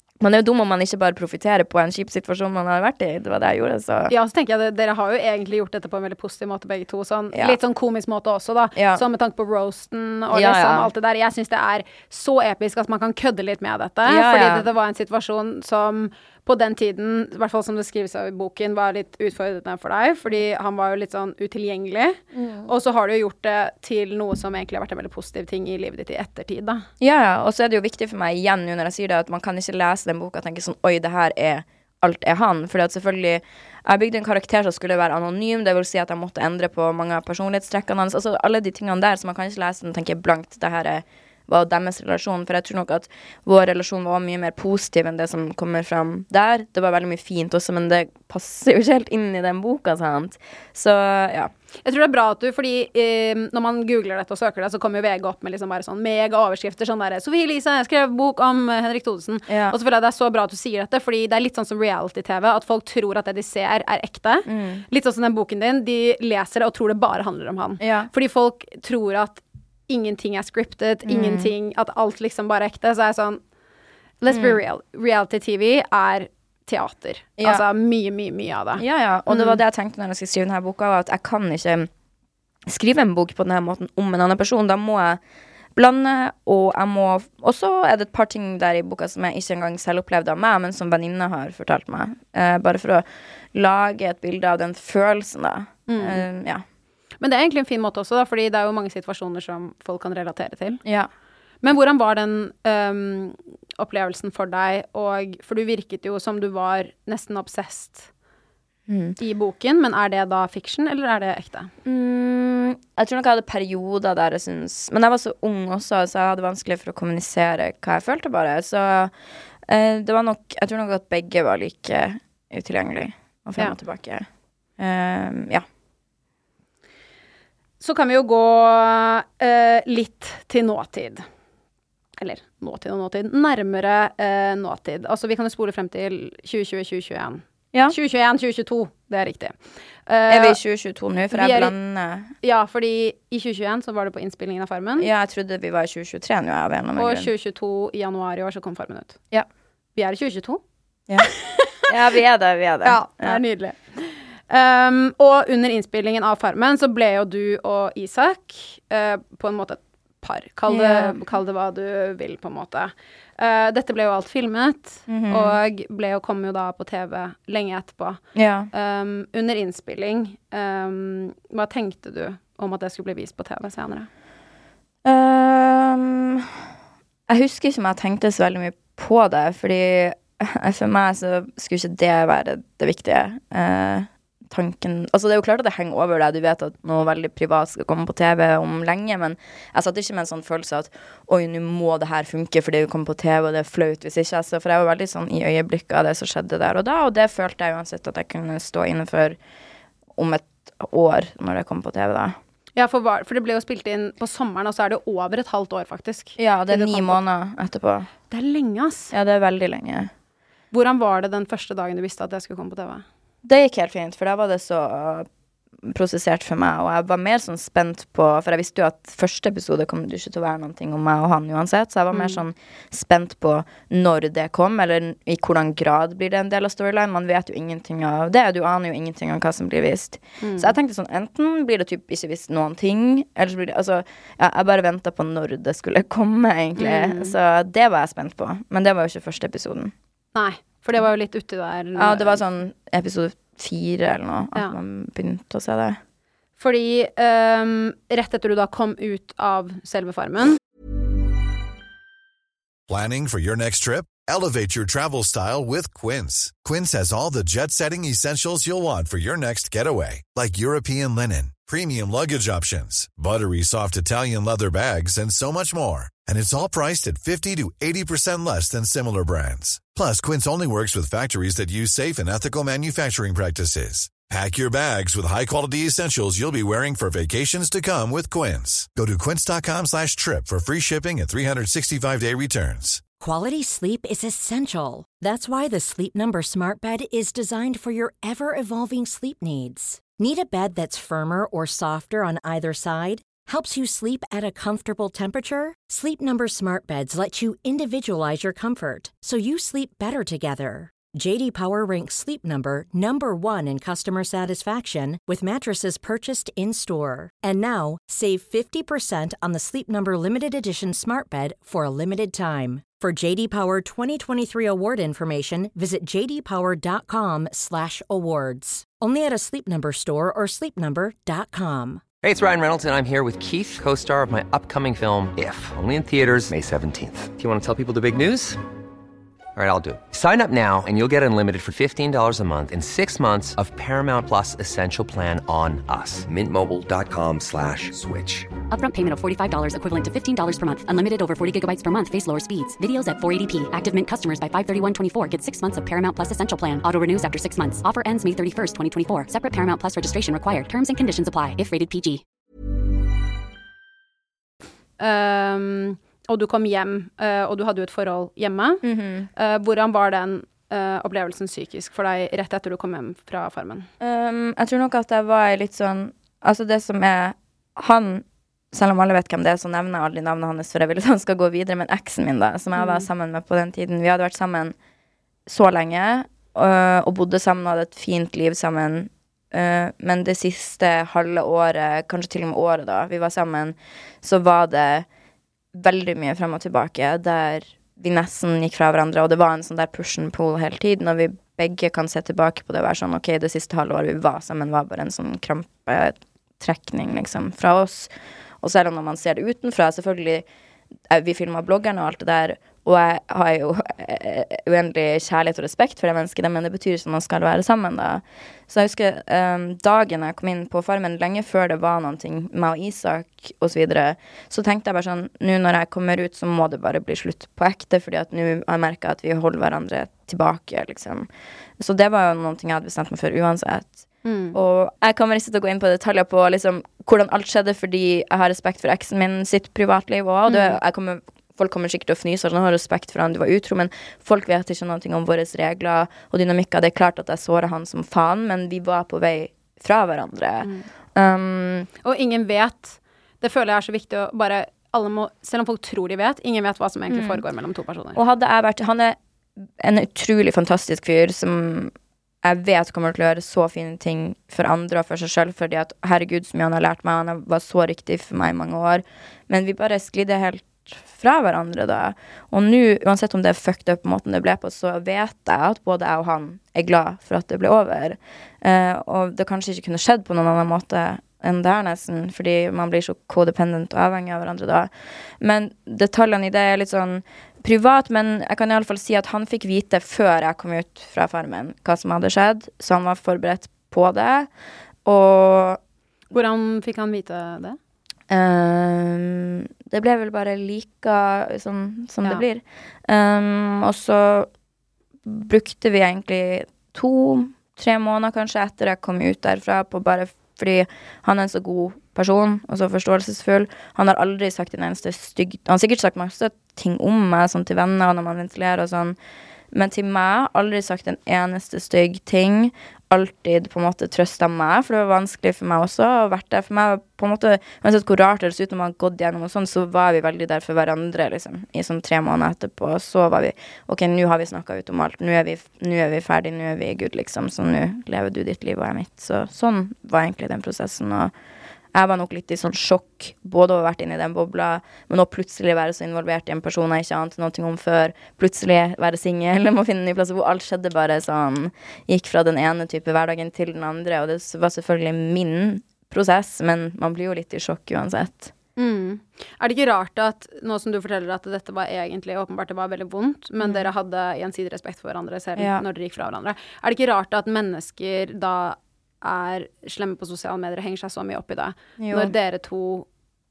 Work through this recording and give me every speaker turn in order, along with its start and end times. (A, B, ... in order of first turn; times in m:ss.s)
0:00.2-0:04.1 A
0:04.1-0:26.8 B
0:08.8-0:09.0 A
0:10.3-0:10.9 A
0:14.0-0:14.7 A
0:22.3-0:22.7 A
0:27.0-0:51.5 A
0:51.8-1:13.4 B
0:59.5-0:59.8 A
1:04.4-1:04.8 A
1:07.8-1:08.1 A
1:11.0-1:11.5 A
1:14.2-1:19.6 B
1:14.3-1:14.6 A
1:18.8-1:21.9 A
1:22.7-1:25.2 A
1:25.8-1:36.6 A
1:35.9-1:36.2 B
1:37.2-1:40.8 B
1:40.8-1:41.1 A
1:41.6-1:48.1 B
1:48.9-1:49.2 A
1:49.2-1:51.7 B
1:51.8-1:59.1 A
1:59.7-2:04.2 A
2:04.8-2:05.6 A
2:07.8-2:11.2 B
2:12.2-2:20.6 B
2:20.3-2:22.3 A
2:21.3-2:21.7 B
2:22.4-2:25.1 B
2:25.0-2:27.3 A
2:27.0-2:29.2 B
2:30.0-2:30.6 B
2:31.2-2:31.9 B
2:31.9-2:33.4 A
2:32.8-2:54.1 B
2:40.7-2:41.2 A
2:45.1-2:45.6 A
2:48.3-2:48.7 A
2:55.0-2:56.5 A
2:57.3-3:19.4 A
3:20.2-3:22.4 A
3:22.8-3:27.2 B
3:26.4-3:28.1 A
3:28.3-3:29.1 B
3:29.1-3:30.1 A
3:30.7-3:33.0 B
3:33.4-3:35.3 A
3:35.8-3:59.9 A
3:42.1-3:42.4 B
3:50.4-3:50.8 B
3:56.8-3:57.3 B
4:00.3-4:02.4 B
4:02.0-4:06.0 A
4:06.6-4:10.6 B
4:12.9-4:43.0 C
4:43.2-5:22.0 D
5:22.2-5:28.6 E
5:29.6-5:38.5 E
5:38.7-5:52.2 F
5:55.0-5:58.8 B
5:58.8-5:59.3 A
5:59.4-6:03.9 B
6:04.0-6:14.8 A
6:12.8-6:13.1 B
6:15.5-6:25.0 A
6:25.8-6:38.1 A
6:38.6-6:40.4 A
6:41.1-7:01.3 A
7:01.8-7:21.9 A
7:04.2-7:04.6 B
7:10.5-7:10.8 B
7:22.0-7:28.2 B
7:27.1-7:27.4 A
7:28.1-7:29.2 A
7:29.8-7:54.9 A
7:55.4-8:04.5 A
8:05.0-8:05.8 A
8:06.3-8:07.8 B
8:08.3-8:14.5 A
8:15.2-8:29.2 A
8:29.7-8:51.3 A
8:51.9-9:08.5 A
9:08.8-9:23.1 B
9:13.6-9:13.9 A
9:15.6-9:15.8 A
9:22.0-9:22.3 A